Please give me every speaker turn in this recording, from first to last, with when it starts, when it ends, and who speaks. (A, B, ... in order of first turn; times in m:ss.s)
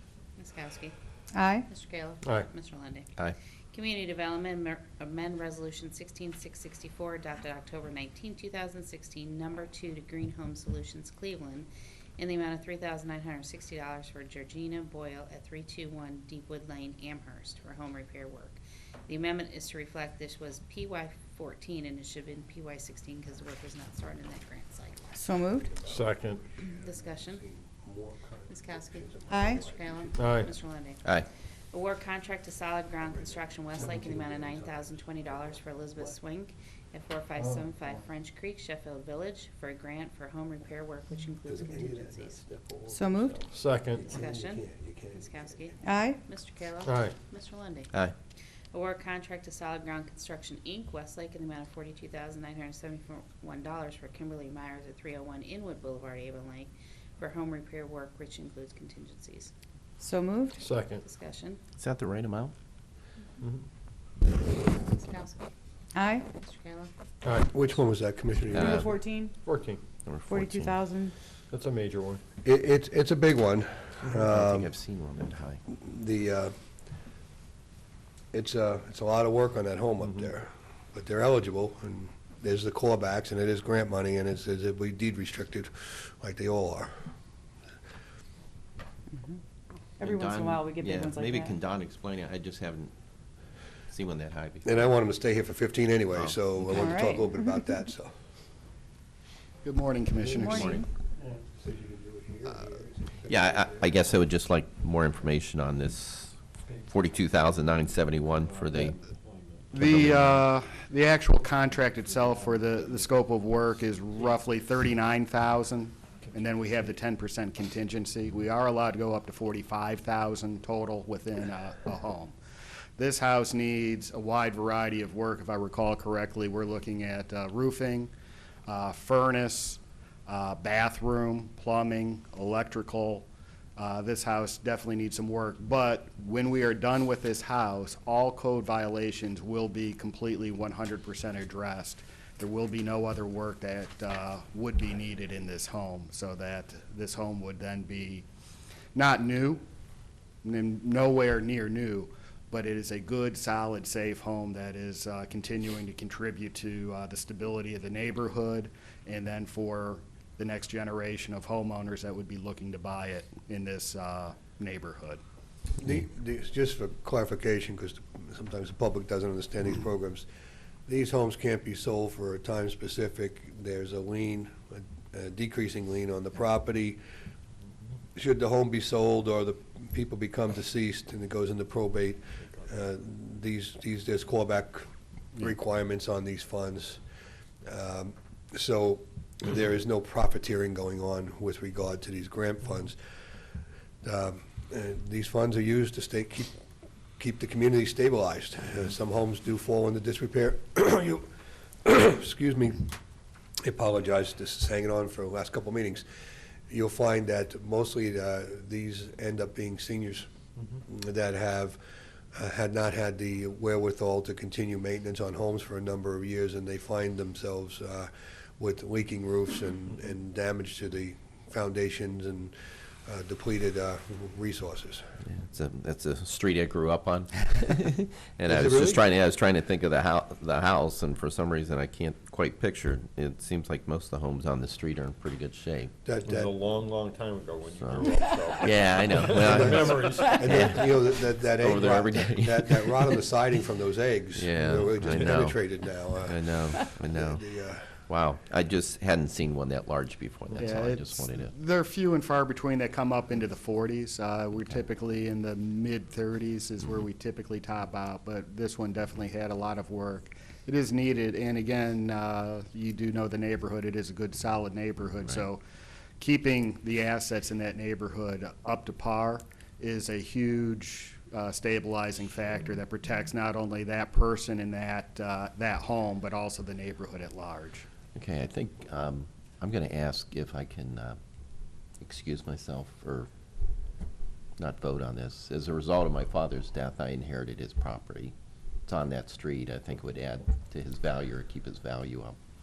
0:00.4-0:00.9 A
0:01.3-0:01.7 B
0:01.7-0:03.2 A
0:02.2-0:02.5 C
0:03.7-0:25.3 A
0:25.2-0:25.8 B
0:25.5-0:30.5 D
0:25.8-0:26.4 C
0:26.7-0:27.4 A
0:28.5-0:31.1 A
0:29.3-0:29.6 B
0:30.1-0:30.5 C
0:31.7-0:42.4 A
0:33.1-0:35.6 D
0:37.4-0:37.6 C
0:41.4-0:45.8 D
0:42.9-0:43.4 B
0:43.5-0:44.0 C
0:44.0-0:47.9 A
0:45.8-0:46.2 B
0:46.8-0:47.1 C
0:48.7-0:59.5 A
1:00.0-1:00.6 B
1:00.6-1:01.0 C
1:01.0-1:01.6 A
1:01.8-1:02.5 E
1:04.6-1:05.5 A
1:05.9-1:06.2 B
1:06.3-1:06.9 A
1:07.2-1:07.5 C
1:07.3-1:08.9 D
1:08.5-1:08.9 E
1:08.6-1:09.4 B
1:09.4-1:09.8 C
1:10.0-1:10.8 E
1:10.3-1:11.1 B
1:11.5-1:12.2 C
1:12.4-1:14.7 D
1:14.0-1:15.6 E
1:15.7-1:16.5 D
1:18.3-1:26.9 D
1:30.0-1:32.9 E
1:30.0-1:31.6 B
1:33.9-1:34.9 E
1:34.6-1:38.1 D
1:36.1-1:36.6 E
1:36.6-1:37.6 B
1:39.6-1:40.8 F
1:40.2-1:40.7 D
1:40.3-1:40.8 B
1:40.4-1:40.8 E
1:41.2-1:44.0 D
1:43.3-1:49.0 E
1:48.3-1:50.0 C
1:49.7-2:02.4 F
1:49.8-1:50.5 E
1:51.7-1:53.3 C
2:03.0-2:08.1 F
2:08.7-2:28.2 F
2:28.9-2:29.6 F
2:30.4-2:45.2 F
2:45.8-2:50.3 D
2:50.9-2:57.0 D
2:58.2-3:04.9 D
3:05.4-3:07.0 D
3:07.6-3:13.0 D
3:14.0-3:16.6 D
3:17.2-3:21.3 D
3:21.8-3:22.9 D
3:23.6-3:26.0 D
3:26.7-3:30.3 D
3:30.9-3:31.8 D
3:32.3-3:45.2 D
3:45.2-3:55.9 E
3:48.4-3:49.0 D
3:56.0-3:56.6 D
3:56.2-4:00.7 C
3:57.8-4:03.3 E
3:59.3-4:08.0 D
4:04.3-4:05.6 E
4:06.2-4:07.4 E
4:08.1-4:11.5 E
4:10.6-4:25.6 F
4:26.2-4:37.9 F
4:38.1-4:41.2 E
4:42.0-4:43.3 E
4:44.6-4:48.3 E
4:48.9-4:52.4 E